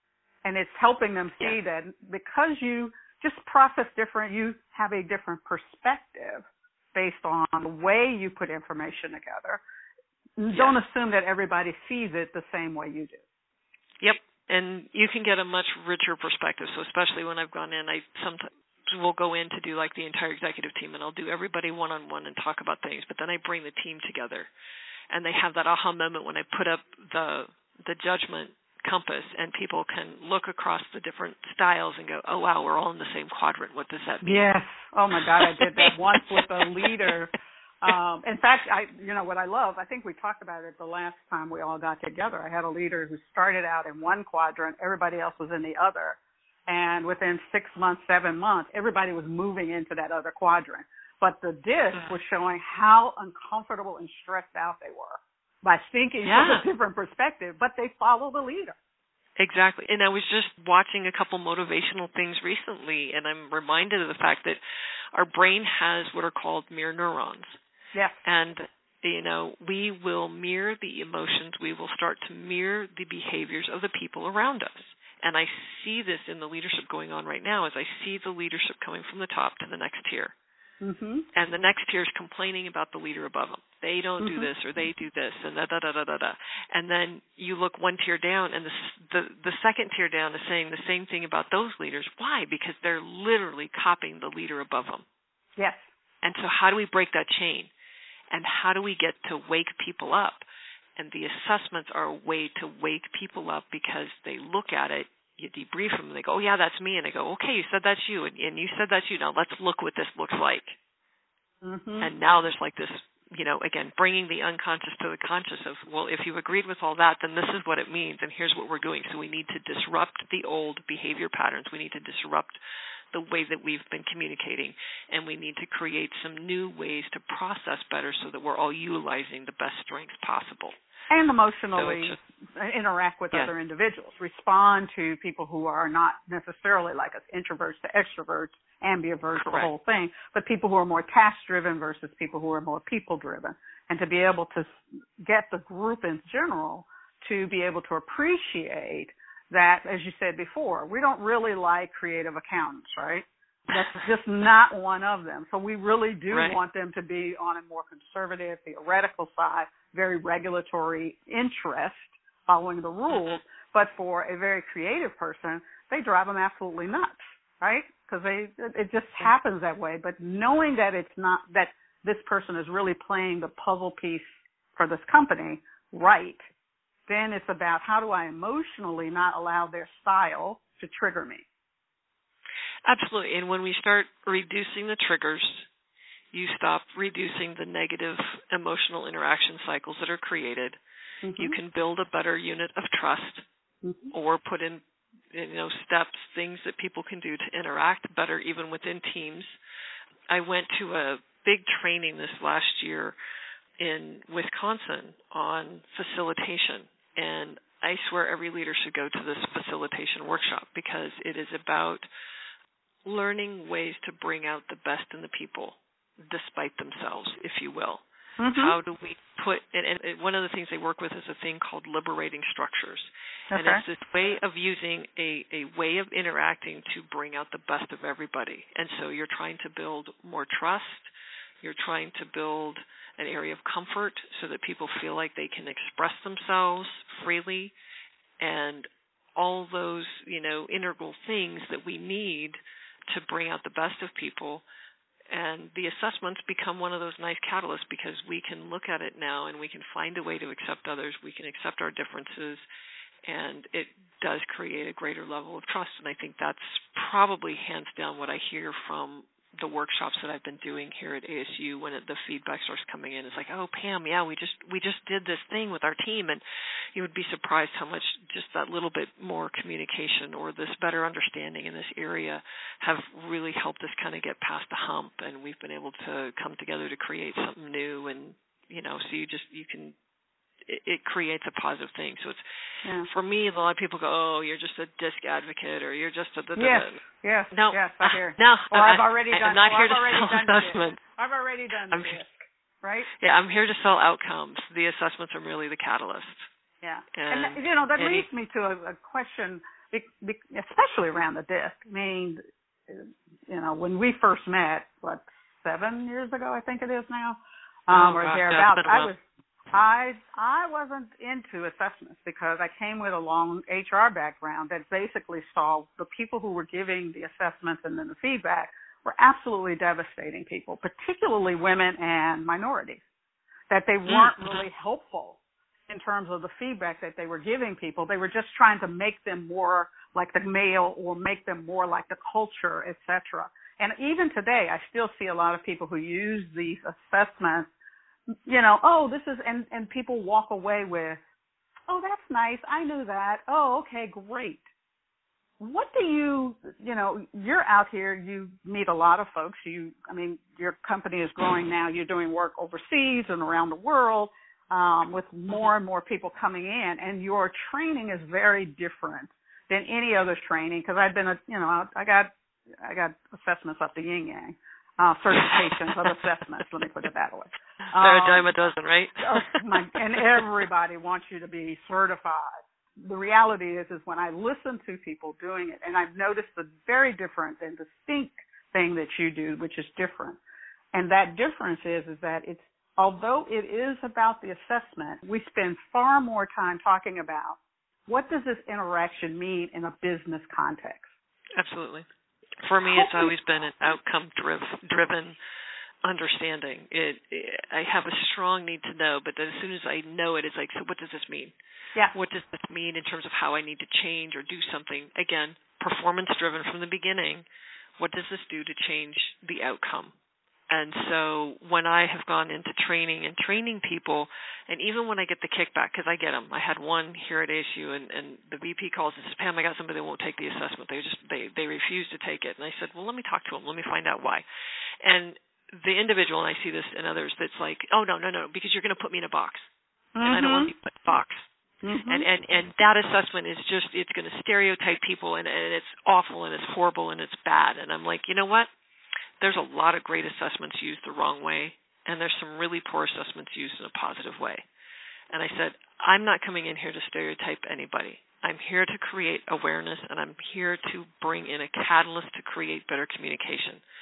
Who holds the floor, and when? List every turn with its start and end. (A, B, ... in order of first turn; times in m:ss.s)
0:00.4-0:09.6 A
0:10.4-0:13.2 A
0:14.0-0:24.5 B
0:25.1-0:34.5 B
0:34.2-0:37.3 A
0:35.4-0:37.1 B
0:37.8-0:58.8 A
0:56.2-0:56.6 B
0:59.4-1:04.6 B
1:05.1-1:07.6 B
1:08.2-1:20.3 B
1:20.8-1:21.2 A
1:21.3-1:35.0 B
1:24.2-1:24.5 A
1:35.6-1:35.9 A
1:36.2-1:37.7 B
1:38.3-1:40.4 B
1:41.0-1:50.8 B
1:51.6-1:52.1 A
1:52.0-2:02.6 B
2:03.1-2:10.8 B
2:11.1-2:56.4 A
2:11.8-2:12.2 B
2:19.4-2:19.7 B
2:33.7-2:34.0 B
2:36.3-2:36.6 B
2:43.1-2:43.4 B
2:57.1-3:01.4 A
3:02.8-3:05.6 B
3:06.3-3:10.8 B
3:11.2-3:11.6 A
3:11.4-3:13.4 B
3:13.8-3:14.1 A
3:14.1-3:19.5 B
3:20.3-3:23.1 B
3:23.8-3:32.0 B
3:33.0-3:51.1 B
3:38.4-3:38.7 A
3:43.5-3:43.8 A
3:51.6-3:57.7 B
3:58.4-4:02.6 B
4:03.1-4:04.6 B
4:05.3-4:12.6 B
4:13.2-4:26.4 B
4:26.9-4:39.9 B
4:40.6-4:42.4 B
4:43.0-4:51.0 B
4:46.6-4:53.1 A
4:51.9-4:52.2 B
4:53.2-4:56.5 B
4:56.8-5:09.2 A
4:57.1-4:58.2 B
5:07.9-5:09.1 B
5:09.7-5:23.0 A
5:23.7-5:37.7 A
5:24.1-5:24.6 B
5:38.4-5:41.2 A
5:41.9-5:44.6 A
5:45.6-6:08.5 A
6:05.4-6:05.9 B
6:08.0-6:09.6 B
6:09.2-6:20.4 A
6:20.9-6:31.0 A
6:31.6-6:32.0 B
6:32.6-6:35.4 B
6:32.9-6:33.3 A
6:36.0-6:41.5 B
6:42.1-6:47.4 B
6:48.0-6:50.1 B
6:50.7-7:04.4 B
7:05.0-7:09.7 B
7:10.1-7:10.7 A
7:10.2-7:11.5 B
7:11.8-7:12.2 A
7:12.1-7:18.7 B
7:19.4-7:24.6 B
7:25.3-7:33.8 B